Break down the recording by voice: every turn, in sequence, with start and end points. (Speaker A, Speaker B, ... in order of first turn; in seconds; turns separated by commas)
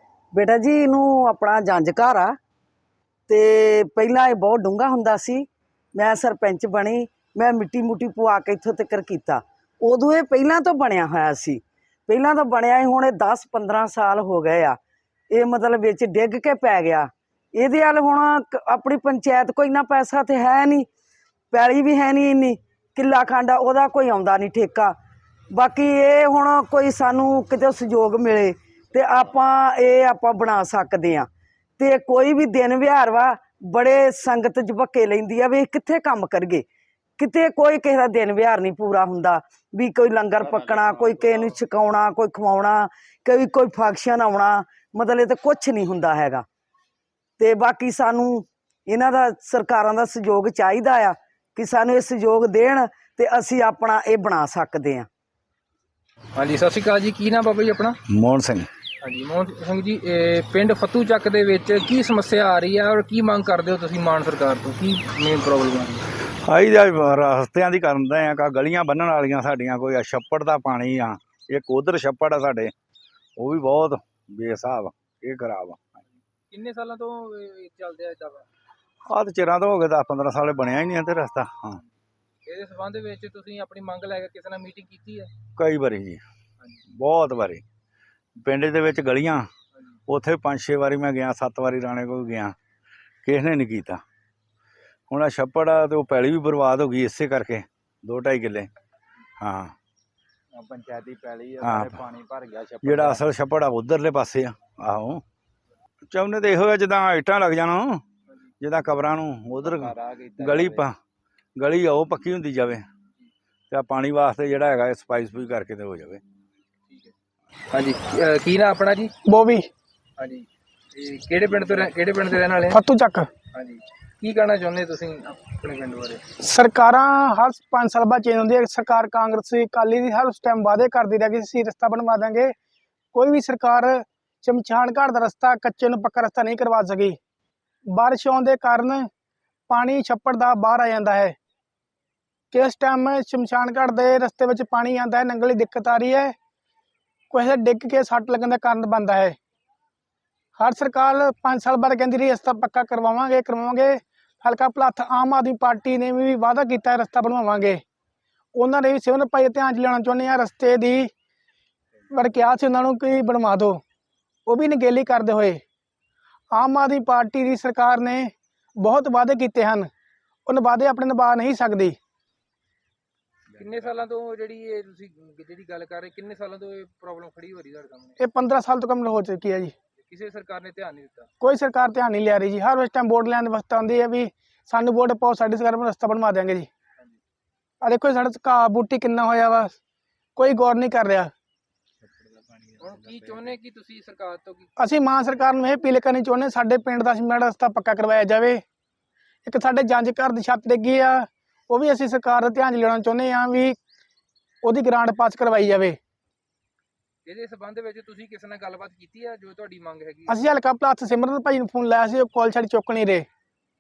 Speaker A: 0.3-2.4, Speaker A: 3.3-14.8, Speaker A: 15.3-20.9, Speaker A: 21.5-24.9, Speaker A: 25.5-36.6, Speaker A: 37.2-46.5, Speaker A: 47.4-55.1, Speaker B: 56.4-58.0, Speaker C: 58.1-58.7, Speaker B: 59.0-66.1, Speaker C: 66.5-72.7, Speaker C: 73.4-75.9, Speaker B: 76.5-78.5, Speaker C: 79.1-81.8, Speaker B: 82.5-85.3, Speaker C: 85.6-86.2, Speaker C: 87.0-87.6, Speaker C: 88.4-89.5, Speaker C: 90.1-92.5, Speaker C: 93.2-94.0, Speaker C: 95.1-98.7, Speaker C: 99.4-99.8, Speaker D: 100.6-103.2, Speaker C: 101.6-102.0, Speaker C: 102.8-105.2, Speaker C: 106.1-108.0, Speaker C: 108.6-111.0, Speaker D: 109.8-110.8, Speaker C: 111.6-112.9, Speaker C: 113.7-116.2, Speaker B: 117.7-119.1, Speaker E: 119.3-119.7, Speaker B: 120.2-122.8, Speaker E: 122.7-123.3, Speaker B: 123.5-126.2, Speaker E: 126.4-132.5, Speaker E: 133.1-137.2, Speaker E: 137.9-139.1, Speaker E: 139.7-141.3, Speaker E: 142.5-146.3, Speaker E: 147.3-149.4, Speaker E: 150.6-157.8, Speaker E: 158.6-161.1, Speaker E: 162.1-163.8, Speaker E: 164.5-165.6, Speaker E: 166.5-169.9, Speaker E: 170.5-172.0, Speaker B: 173.6-178.2, Speaker E: 178.2-179.7, Speaker B: 180.0-181.3, Speaker E: 181.4-186.7, Speaker E: 187.8-189.8, Speaker E: 190.4-191.3, Speaker D: 192.5-192.8, Speaker B: 192.8-194.7, Speaker E: 194.8-198.6, Speaker E: 199.5-203.8, Speaker E: 204.6-206.0, Speaker B: 207.3-210.4, Speaker E: 210.3-213.3